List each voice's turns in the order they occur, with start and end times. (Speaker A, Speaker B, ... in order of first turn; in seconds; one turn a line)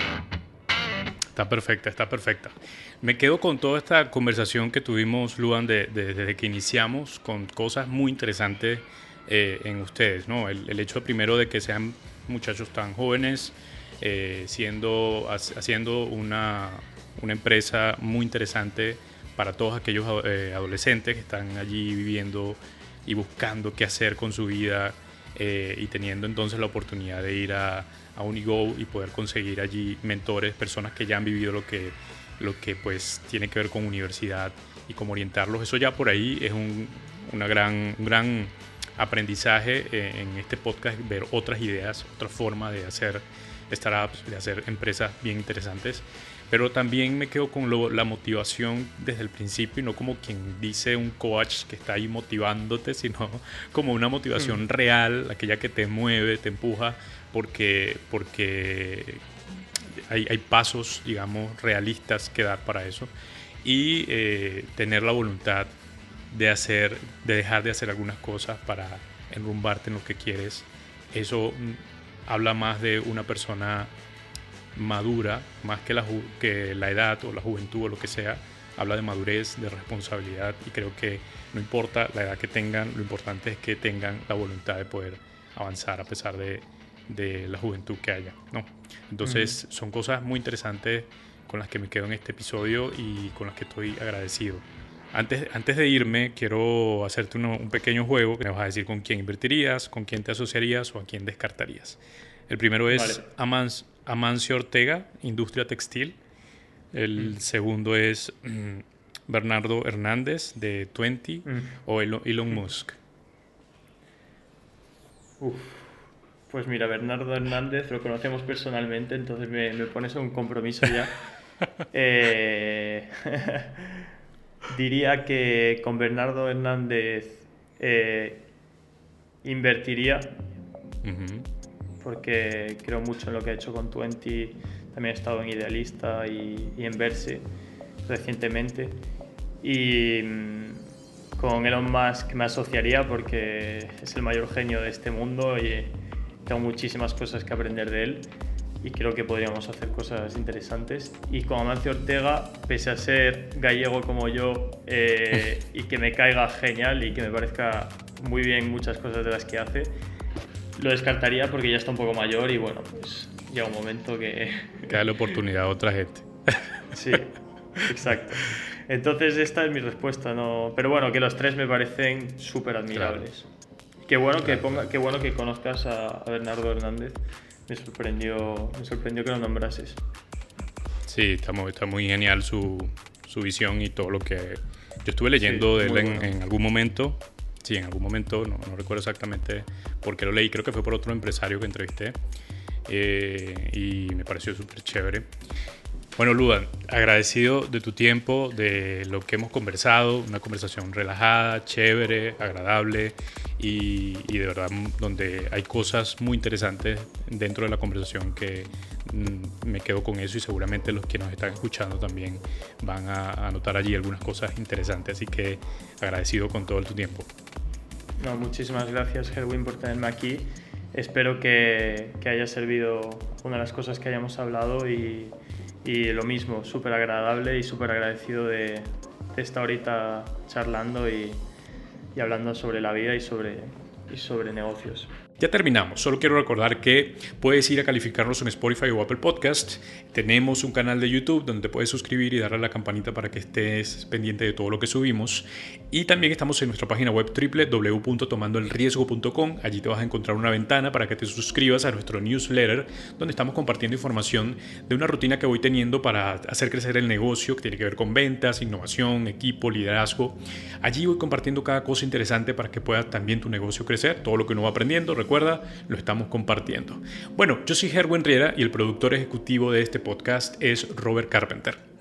Speaker A: 1.3-63.1
Speaker A: 63.6-65.7
Speaker A: 66.3-73.9
Speaker A: 74.7-106.2
Speaker B: 89.2-89.6
Speaker B: 102.9-103.2
Speaker A: 106.9-113.0
Speaker B: 111.5-111.7
Speaker B: 115.4-121.2
Speaker B: 121.9-124.0
Speaker B: 124.7-128.5
Speaker B: 129.4-130.3
Speaker A: 131.0-131.5
Speaker B: 132.0-137.5
Speaker B: 138.0-139.0
Speaker B: 139.6-140.8
Speaker B: 141.4-145.9
Speaker B: 146.4-148.3
Speaker B: 148.8-159.9
Speaker B: 160.7-165.0
Speaker A: 164.9-166.6
Speaker B: 166.9-173.5
Speaker B: 174.1-180.0
Speaker A: 174.4-174.8
Speaker A: 181.1-192.2
Speaker B: 185.3-186.3
Speaker A: 192.8-195.3
Speaker A: 196.2-217.3
Speaker B: 218.2-231.4
Speaker B: 232.1-235.1
Speaker A: 235.4-271.8